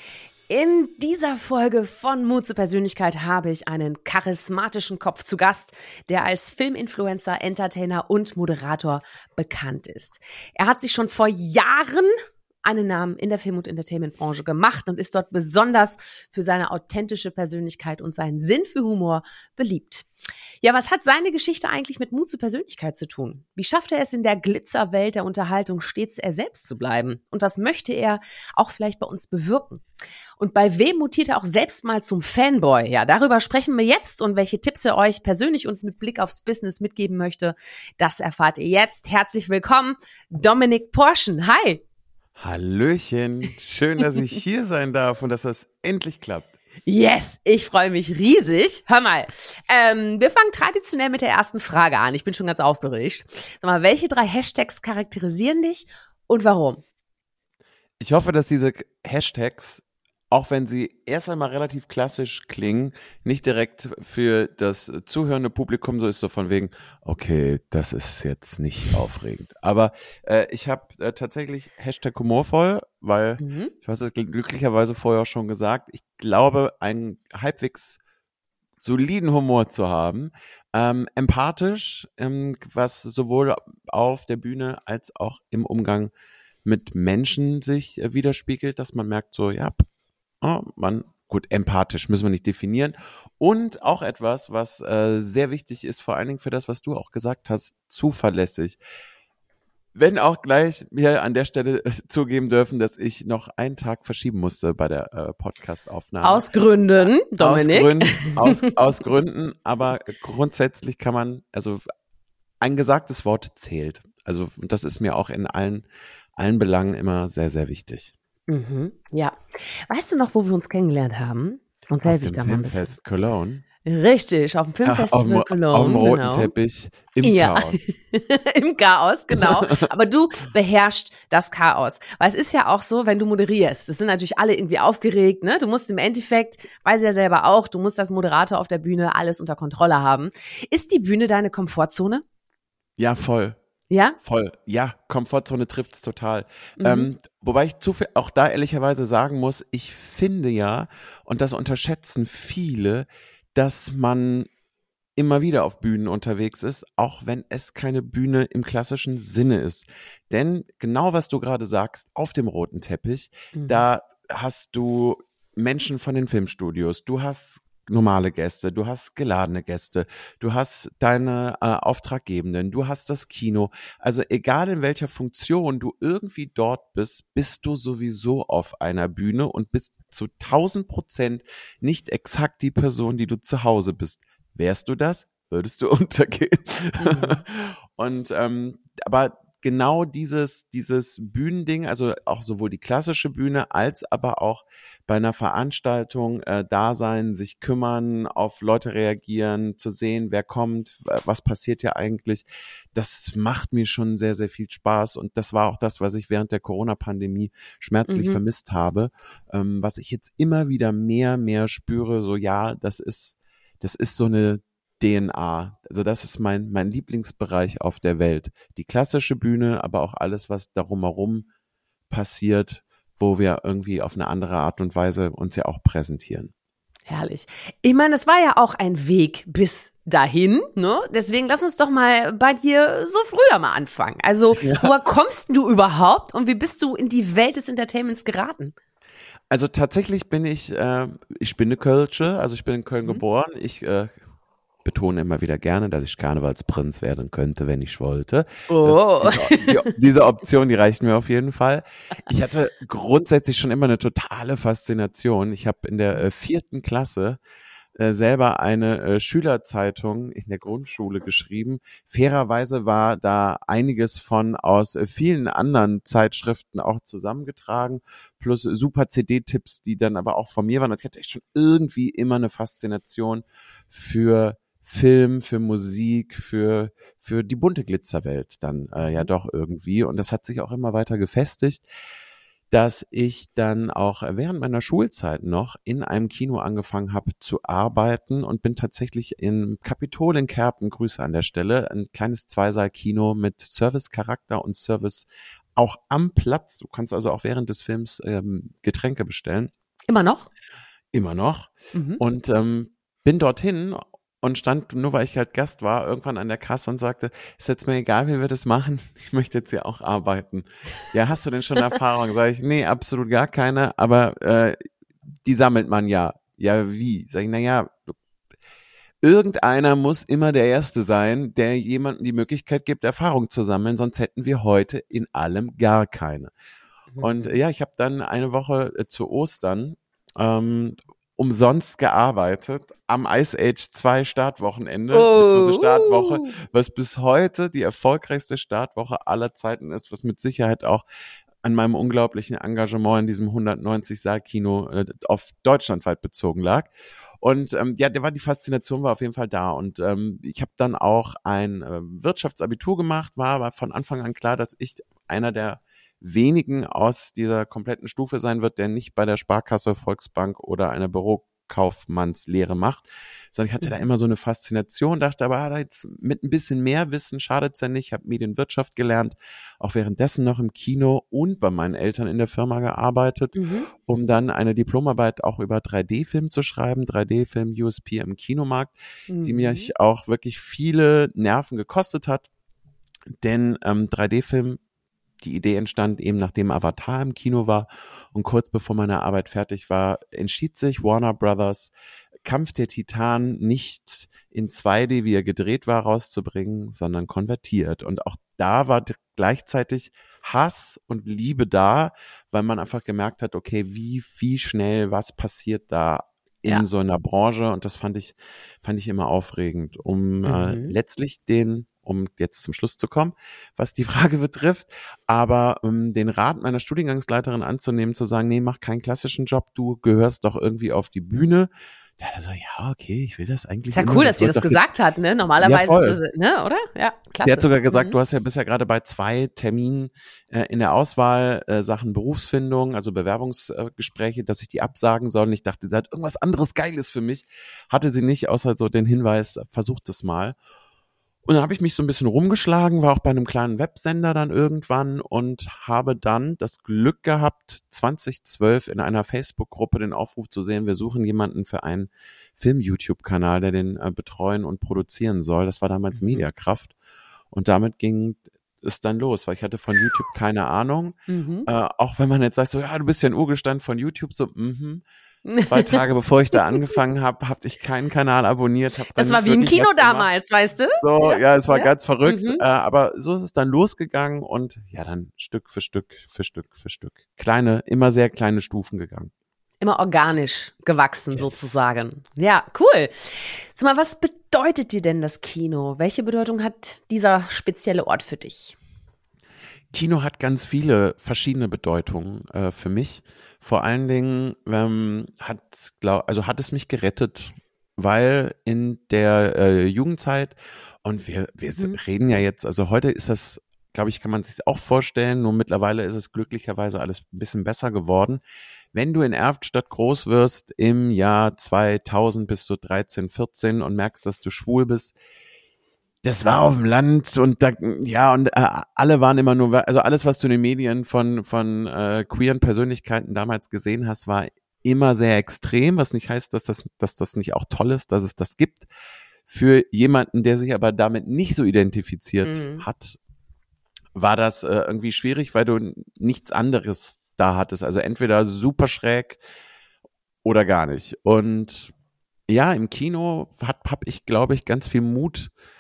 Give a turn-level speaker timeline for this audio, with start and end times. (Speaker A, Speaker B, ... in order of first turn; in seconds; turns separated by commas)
Speaker A: 0.5-12.1, Speaker A: 12.6-20.1, Speaker A: 20.6-29.8, Speaker A: 30.4-41.8, Speaker B: 42.4-46.5, Speaker A: 46.9-56.8, Speaker B: 58.0-78.0, Speaker A: 73.4-73.7, Speaker B: 78.8-86.1, Speaker B: 86.6-89.8, Speaker B: 90.4-98.8, Speaker B: 99.9-106.4, Speaker A: 106.2-108.7, Speaker B: 107.0-111.8, Speaker B: 112.6-115.8, Speaker B: 116.4-118.1, Speaker A: 118.5-119.4, Speaker A: 119.9-122.9, Speaker B: 122.0-123.6, Speaker A: 123.8-126.5, Speaker B: 124.8-127.8, Speaker A: 127.2-142.2, Speaker B: 129.3-129.7, Speaker B: 143.0-143.6, Speaker A: 143.9-144.2, Speaker B: 144.2-154.5, Speaker A: 146.8-147.1, Speaker B: 155.2-221.5, Speaker A: 163.5-163.8, Speaker A: 187.0-187.4, Speaker A: 208.1-208.4, Speaker B: 222.1-226.5, Speaker A: 227.1-238.7, Speaker B: 234.5-234.9, Speaker B: 239.5-244.1, Speaker B: 244.8-257.4, Speaker A: 248.7-249.9, Speaker B: 257.9-281.8, Speaker A: 279.0-279.3, Speaker B: 282.7-299.7, Speaker A: 300.1-300.5, Speaker B: 301.1-314.8, Speaker A: 301.9-302.2, Speaker B: 315.4-318.1, Speaker B: 319.2-326.5, Speaker A: 327.1-327.6, Speaker B: 327.2-341.0, Speaker A: 335.1-336.5, Speaker B: 341.6-382.5, Speaker A: 373.5-373.9, Speaker A: 379.3-379.9, Speaker B: 383.4-384.8, Speaker B: 385.4-391.9, Speaker B: 392.4-424.8, Speaker A: 410.4-410.9, Speaker A: 423.9-428.1, Speaker B: 425.6-426.2, Speaker B: 427.4-440.6, Speaker B: 441.4-456.9, Speaker A: 456.1-456.4, Speaker B: 457.5-465.0, Speaker A: 461.3-461.7, Speaker A: 465.4-466.0, Speaker B: 465.6-470.3, Speaker A: 469.1-472.6, Speaker B: 470.9-479.3, Speaker A: 479.8-488.8, Speaker B: 481.3-481.7, Speaker B: 489.9-508.4, Speaker B: 508.9-515.1, Speaker B: 516.2-528.9, Speaker B: 529.5-533.2, Speaker A: 532.4-532.8, Speaker B: 534.1-539.4, Speaker B: 540.4-541.9, Speaker B: 542.5-545.5